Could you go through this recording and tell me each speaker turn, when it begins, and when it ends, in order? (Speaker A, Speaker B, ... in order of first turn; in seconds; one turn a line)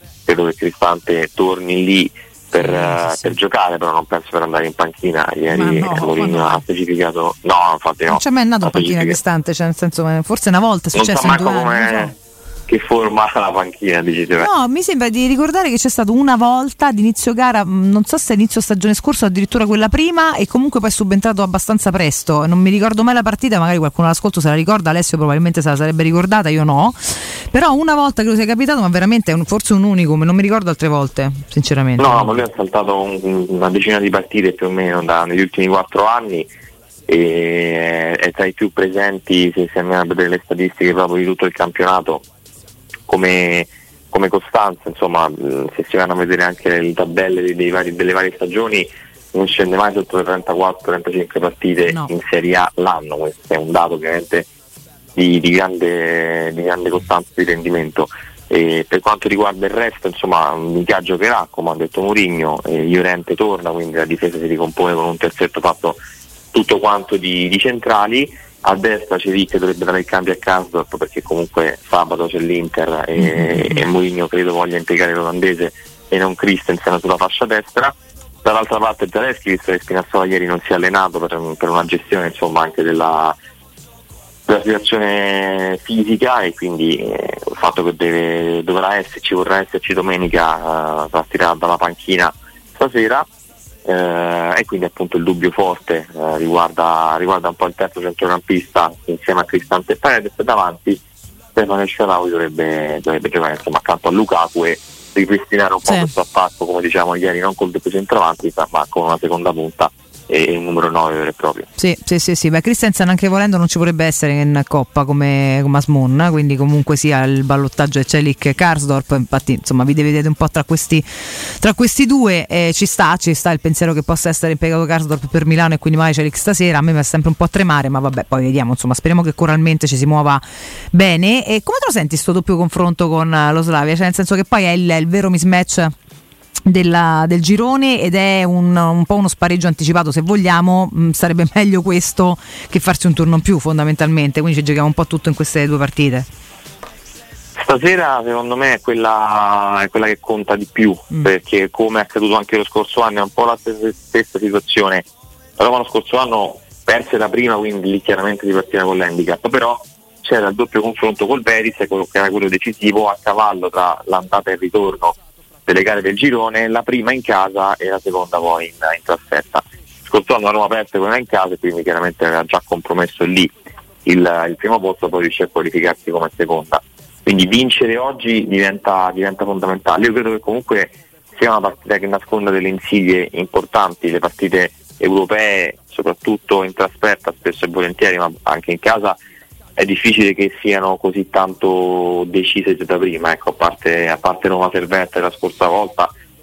Speaker A: 0.2-9.2
Speaker B: 2.5-3.3
Speaker B: 5.5-6.6
Speaker B: 8.1-12.1
Speaker A: 10.9-12.2
Speaker A: 12.7-14.5
Speaker B: 14.4-32.4
Speaker A: 32.0-36.5
Speaker A: 37.1-42.2
Speaker A: 43.1-54.5
Speaker B: 51.8-52.1
Speaker A: 55.1-66.0
Speaker A: 66.5-83.4
Speaker B: 73.2-73.8
Speaker A: 84.5-93.3
Speaker A: 93.8-101.0
Speaker A: 101.5-111.7
Speaker B: 105.8-106.1
Speaker B: 111.8-135.9
Speaker B: 136.7-146.3
Speaker A: 147.6-155.1
Speaker A: 155.6-173.5
Speaker A: 174.0-189.2
Speaker A: 189.8-196.1